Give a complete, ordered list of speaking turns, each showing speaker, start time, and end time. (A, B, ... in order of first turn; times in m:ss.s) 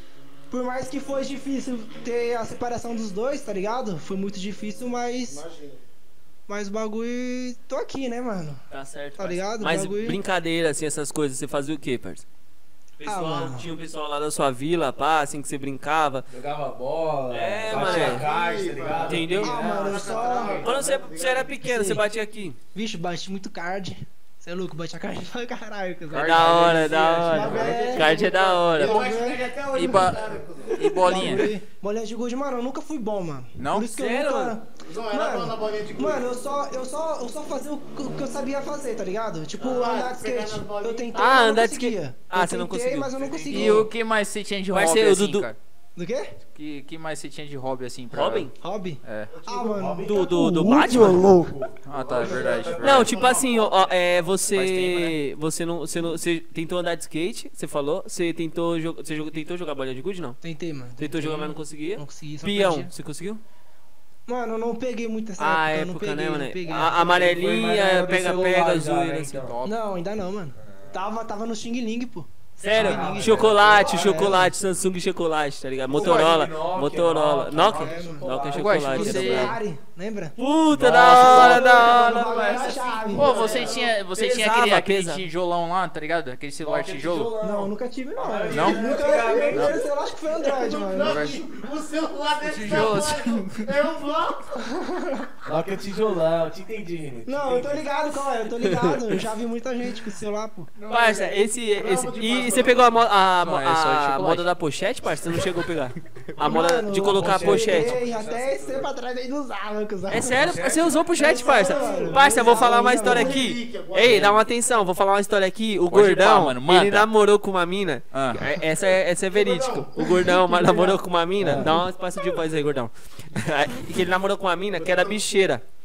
0:00.5-0:05.4 A
0:05.2-0:05.8 B
0:06.5-0:08.6 A
0:08.7-0:12.2 C
0:09.2-0:10.2 A
0:13.0-0:16.3 C
0:13.0-0:13.7 A
0:16.3-0:20.7 D
0:17.3-0:18.3 C
0:17.7-0:21.5 B
0:19.0-0:22.6 C
0:19.4-0:20.7 A
0:21.6-0:22.0 A
0:22.7-0:30.1 A
0:26.1-0:27.7 E
0:26.2-0:29.0 C
0:27.4-0:30.8 B
0:29.7-0:31.5 E
0:30.7-0:43.9 A
0:33.6-0:33.9 E
0:33.9-0:34.6 C
0:34.8-0:36.3 B
0:39.6-0:41.2 B
0:41.1-0:43.2 C
0:43.2-0:43.9 D
0:43.5-0:45.6 E
0:44.7-0:45.5 C
0:46.0-0:46.4 A
0:46.5-0:48.5 E
0:48.1-0:48.5 C
0:48.6-0:50.4 A
0:49.0-0:49.3 E
0:49.3-0:49.9 B
0:49.8-0:53.2 D
0:50.0-0:51.2 C
0:51.8-0:53.1 E
0:52.0-0:53.9 B
0:52.8-1:00.4 C
0:54.6-0:55.2 E
1:00.4-1:02.9 A
1:01.0-1:03.4 C
1:04.3-1:07.0 A
1:05.4-1:09.4 C
1:06.9-1:09.6 D
1:09.4-1:09.8 E
1:09.6-1:14.5 A
1:12.6-1:19.6 C
1:12.8-1:14.5 D
1:15.9-1:19.2 D
1:17.7-1:20.4 A
1:18.6-1:19.6 E
1:20.4-1:23.0 C
1:20.7-1:22.4 E
1:20.9-1:23.7 A
1:21.8-1:23.9 B
1:23.1-1:27.3 E
1:24.0-1:25.2 C
1:26.6-1:29.8 D
1:27.4-1:31.3 A
1:28.5-1:28.9 E
1:29.5-1:29.8 E
1:30.4-1:34.7 B
1:31.0-1:31.4 E
1:32.4-1:33.6 E
1:32.7-1:33.0 C
1:34.7-1:35.3 A
1:35.4-1:37.9 D
1:37.2-1:40.7 A
1:38.6-1:39.0 C
1:40.8-1:42.9 B
1:40.9-1:47.9 C
1:43.4-1:44.5 E
1:46.4-1:50.5 A
1:47.0-1:48.9 D
1:50.1-2:05.6 C
1:50.4-1:51.2 D
1:51.2-1:53.4 A
1:51.3-1:54.4 B
1:54.0-1:54.3 E
1:55.9-1:57.1 E
1:58.1-1:58.4 E
1:59.3-2:00.2 B
2:00.2-2:01.0 A
2:01.4-2:01.7 D
2:04.8-2:05.2 B